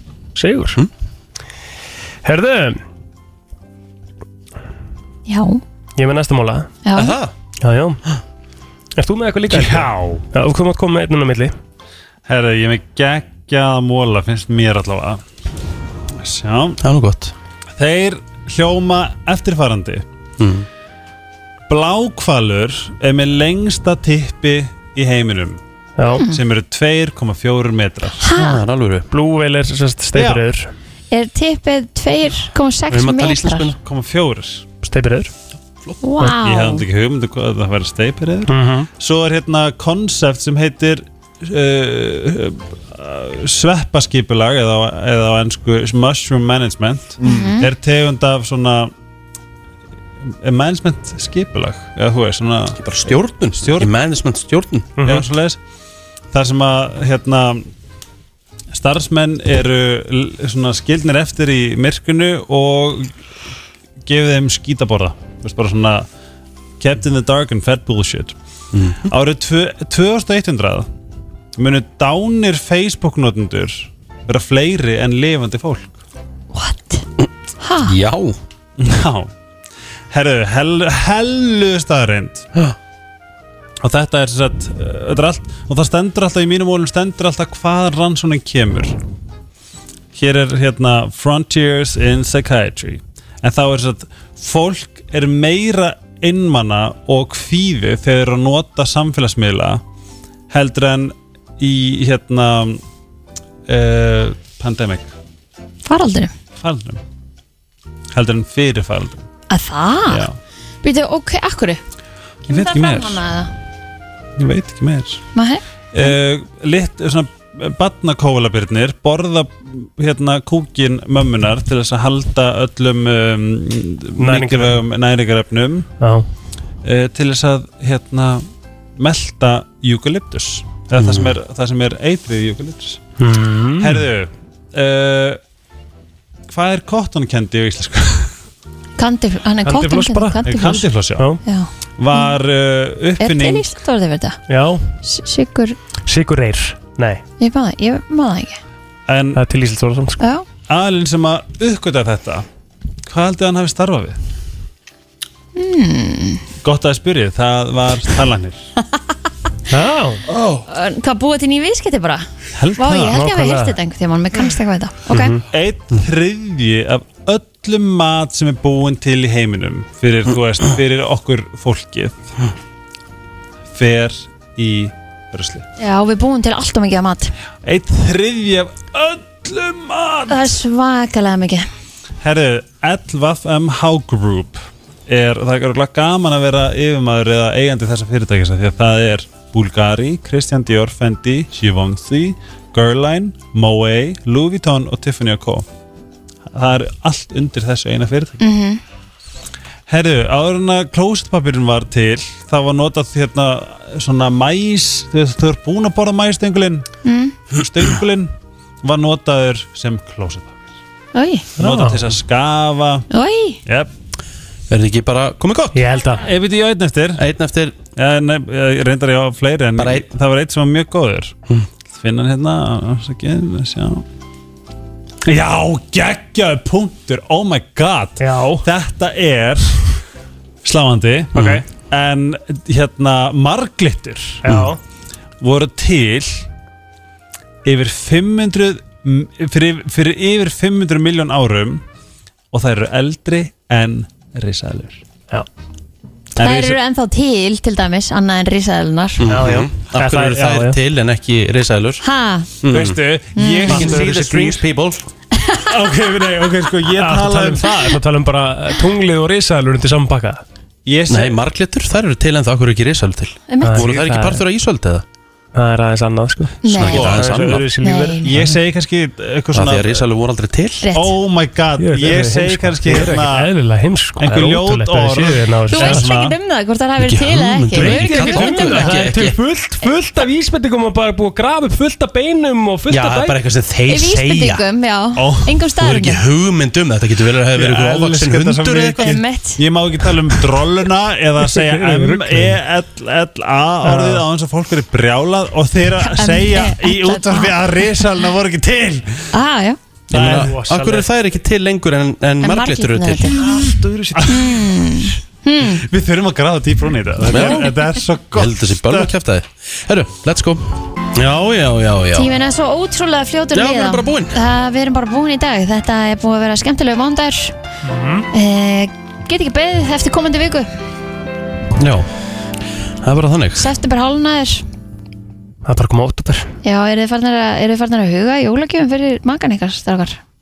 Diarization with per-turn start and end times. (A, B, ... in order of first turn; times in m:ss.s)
0:00.3-0:00.8 A
0:02.2-0:02.8 A
0:05.3-0:05.6 B
0:06.0-0:06.7 A
0:06.8-0:07.2 B
0:06.9-0:07.3 C
0:07.6-0:08.0 A
0:09.0-0:11.5 A
0:09.5-0:10.2 D
0:12.3-0:15.2 D
0:16.2-0:16.8 D
0:16.8-0:17.3 C
0:17.8-0:20.0 D
0:20.4-0:20.7 C
0:21.7-0:25.6 D
0:26.0-0:26.2 A
0:26.1-0:26.4 B
0:26.2-0:28.2 D
0:28.2-0:28.6 B
0:28.3-0:29.1 C
0:29.1-0:30.7 A
0:30.1-0:30.4 D
0:31.1-0:33.7 B
0:32.9-0:33.8 C
0:33.8-0:34.7 D
0:34.8-0:35.3 A
0:36.0-0:36.8 B
0:36.4-0:48.9 D
0:38.5-0:38.9 A
0:47.2-0:47.7 B
0:50.4-0:52.8 D
0:52.8-0:55.0 C
0:53.6-0:53.9 D
0:55.0-0:55.3 A
0:55.0-0:55.6 D
0:56.3-0:57.7 D
0:58.7-1:03.1 D
1:04.0-1:06.1 D
1:06.8-1:08.3 D
1:08.7-1:09.1 C
1:09.0-1:10.9 D
1:11.6-1:16.0 D
1:16.5-1:17.0 B
1:17.6-1:17.9 B
1:17.8-1:18.4 C
1:18.8-1:19.3 D
1:20.1-1:22.5 D
1:23.8-1:29.0 D
1:30.1-1:39.8 D
1:40.5-1:42.8 D
1:43.7-1:45.1 D
1:45.8-1:46.3 B
1:46.6-1:47.0 D
1:48.1-1:49.2 D
1:49.5-1:50.2 B
1:50.1-1:50.3 D
1:50.8-1:51.8 B
1:52.5-1:53.2 D
1:52.5-1:53.5 B
1:54.4-1:55.2 D
1:55.3-1:56.1 B
1:55.9-2:05.9 D
2:04.2-2:04.8 A
2:06.0-2:06.2 A
2:06.8-2:08.4 D
2:09.0-2:13.0 D
2:11.0-2:11.4 C
2:13.2-2:14.0 A
2:13.8-2:15.4 D
2:16.5-2:18.3 D
2:19.0-2:20.9 B
2:19.6-2:20.4 A
2:20.4-2:21.3 D
2:21.4-2:22.3 B
2:22.0-2:23.8 D
2:23.2-2:24.4 B
2:24.5-2:24.9 A
2:25.0-2:25.8 B
2:26.0-2:27.2 A
2:27.4-2:28.6 B
2:29.1-2:29.4 D
2:29.3-2:30.2 A
2:30.2-2:30.4 B
2:30.7-2:32.4 D
2:33.0-2:34.2 D
2:35.6-2:36.4 B
2:36.6-2:38.6 D
2:39.7-2:40.2 A
2:40.3-2:40.6 D
2:40.7-2:42.2 B
2:42.6-2:43.2 D
2:42.8-2:45.4 B
2:43.1-2:43.8 A
2:45.1-2:45.4 A
2:45.5-2:52.2 D
2:53.7-2:55.6 D
2:55.8-2:57.3 B
2:57.6-3:00.5 D
3:00.3-3:01.7 B
3:02.2-3:15.6 D
3:16.5-3:18.4 D
3:18.4-3:18.8 B
3:19.9-3:26.9 D
3:27.0-3:27.3 B
3:27.5-3:30.6 D
3:31.1-3:31.5 B
3:31.6-3:33.0 D
3:31.6-3:32.0 A
3:33.1-3:33.6 B
3:33.6-3:33.9 D
3:34.7-3:35.9 C
3:35.7-3:36.2 A
3:36.2-3:37.2 D
3:37.2-3:37.8 C
3:38.0-3:41.4 D
3:39.8-3:40.1 C
3:41.9-3:44.0 D
3:45.2-3:49.8 D
3:48.2-3:48.6 A
3:50.6-3:54.6 D
3:51.3-3:51.6 C
3:54.4-3:54.8 A
3:55.4-3:56.4 D
3:57.6-4:01.8 D
4:02.5-4:05.0 D
4:06.4-4:06.8 D
4:06.4-4:09.2 B
4:09.2-4:12.0 C
4:09.3-4:10.8 A
4:12.0-4:12.5 B
4:12.6-4:13.0 C
4:12.7-4:14.6 D
4:13.3-4:13.9 B
4:13.7-4:15.0 C
4:15.4-4:15.7 B
4:15.6-4:17.8 D
4:16.9-4:20.4 A
4:20.8-4:21.4 D
4:21.1-4:25.0 C
4:23.5-4:23.9 B
4:23.6-4:24.4 A
4:25.5-4:28.5 A
4:26.6-4:27.1 B
4:26.7-4:27.6 C
4:26.9-4:27.2 D
4:27.8-4:28.3 B
4:28.2-4:30.0 D
4:29.5-4:30.8 C
4:30.8-4:31.1 B
4:30.9-4:33.5 D
4:31.8-4:36.0 A
4:34.2-4:36.4 D
4:35.7-4:39.0 B
4:37.0-4:39.4 C
4:37.7-4:43.4 A
4:42.9-4:44.6 C
4:43.9-4:46.2 B
4:45.2-4:45.6 D
4:45.8-4:49.1 C
4:47.5-4:59.3 D
4:49.0-4:49.6 B
4:51.4-4:52.6 A
4:53.8-4:54.2 A
4:56.1-4:57.8 B
4:59.3-4:59.8 B
5:00.1-5:03.3 C
5:00.1-5:00.6 D
5:00.2-5:01.0 A
5:02.4-5:03.4 B
5:03.4-5:04.7 A
5:04.2-5:05.8 B
5:05.8-5:09.1 D
5:07.3-5:07.8 C
5:08.3-5:12.3 C
5:12.1-5:17.5 B
5:13.5-5:14.4 C
5:17.8-5:18.3 A
5:18.3-5:20.7 B
5:21.8-5:22.1 C
5:23.0-5:23.6 C
5:23.6-5:24.6 B
5:25.6-5:26.5 A
5:26.6-5:30.2 B